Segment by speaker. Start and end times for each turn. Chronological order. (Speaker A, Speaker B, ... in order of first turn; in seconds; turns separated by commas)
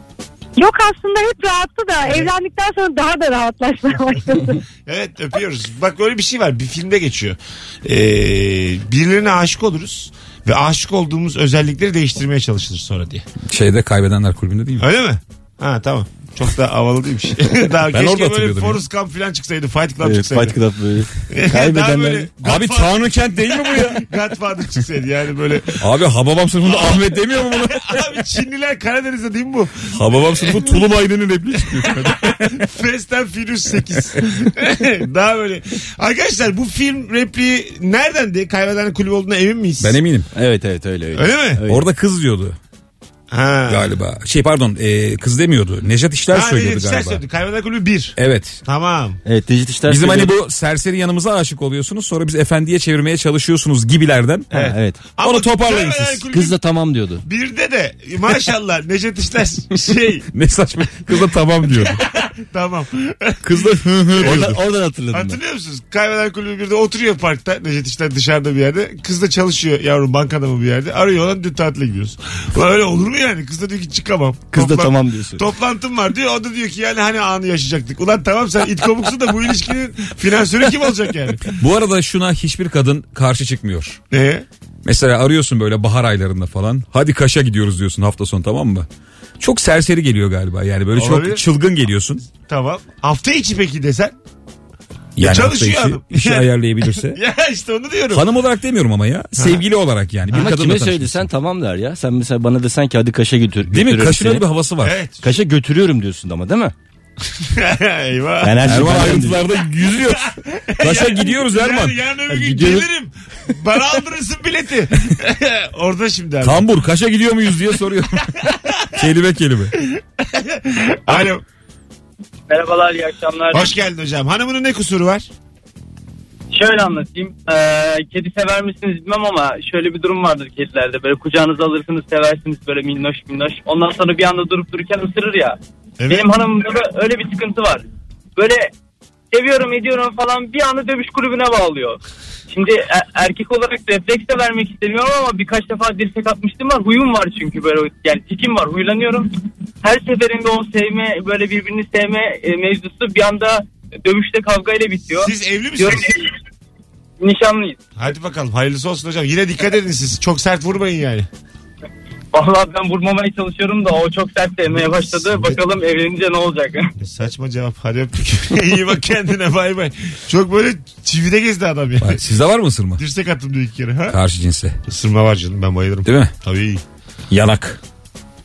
Speaker A: 0.6-4.6, Speaker B: 4.8-13.2, Speaker C: 13.4-14.9, Speaker B: 14.8-20.6, Speaker C: 17.9-18.8, Speaker D: 20.0-22.3, Speaker B: 21.3-25.9, Speaker C: 22.4-24.1, Speaker C: 25.8-28.0, Speaker B: 26.6-30.9, Speaker C: 29.9-32.6, Speaker B: 31.6-40.0, Speaker C: 39.8-40.3, Speaker D: 40.3-41.9, Speaker B: 41.1-41.6, Speaker C: 41.7-42.5, Speaker B: 43.3-43.9, Speaker C: 43.7-47.2, Speaker B: 46.3-49.2, Speaker C: 48.2-48.6, Speaker D: 49.2-50.3, Speaker C: 49.9-54.6, Speaker D: 54.5-55.0, Speaker B: 54.5-56.5, Speaker C: 55.2-56.2, Speaker D: 56.3-57.2, Speaker B: 57.2-60.3, Speaker C: 60.3-62.0, Speaker B: 61.9-64.5, Speaker C: 63.4-64.6, Speaker D: 64.2-65.4, Speaker B: 65.1-81.5, Speaker D: 74.5-75.4, Speaker C: 81.5-84.0, Speaker B: 84.1-84.5, Speaker C: 84.8-88.9, Speaker C: 89.4-92.2, Speaker B: 90.9-91.4, Speaker B: 92.2-94.1, Speaker C: 95.2-97.2, Speaker B: 95.2-98.2, Speaker C: 98.1-101.3, Speaker B: 99.4-99.6, Speaker D: 100.3-104.5, Speaker C: 103.7-104.9, Speaker B: 104.8-105.3, Speaker D: 105.2-106.7, Speaker B: 107.4-108.8, Speaker D: 108.4-109.4, Speaker C: 108.6-112.0, Speaker B: 110.0-116.6, Speaker D: 112.3-112.9, Speaker C: 116.4-119.8, Speaker B: 119.9-121.4, Speaker E: 122.5-123.7, Speaker B: 123.5-125.3, Speaker E: 126.5-135.6, Speaker B: 136.0-136.3, Speaker E: 136.1-138.7, Speaker E: 139.3-149.3, Speaker E: 149.8-156.3, Speaker B: 155.1-156.1, Speaker E: 157.2-157.8, Speaker B: 158.0-161.3, Speaker E: 162.3-166.9, Speaker B: 165.2-165.6, Speaker B: 167.0-172.2, Speaker C: 172.0-173.0, Speaker B: 173.0-174.2, Speaker C: 174.1-174.8, Speaker B: 174.9-176.8, Speaker C: 176.0-176.3, Speaker C: 177.3-177.8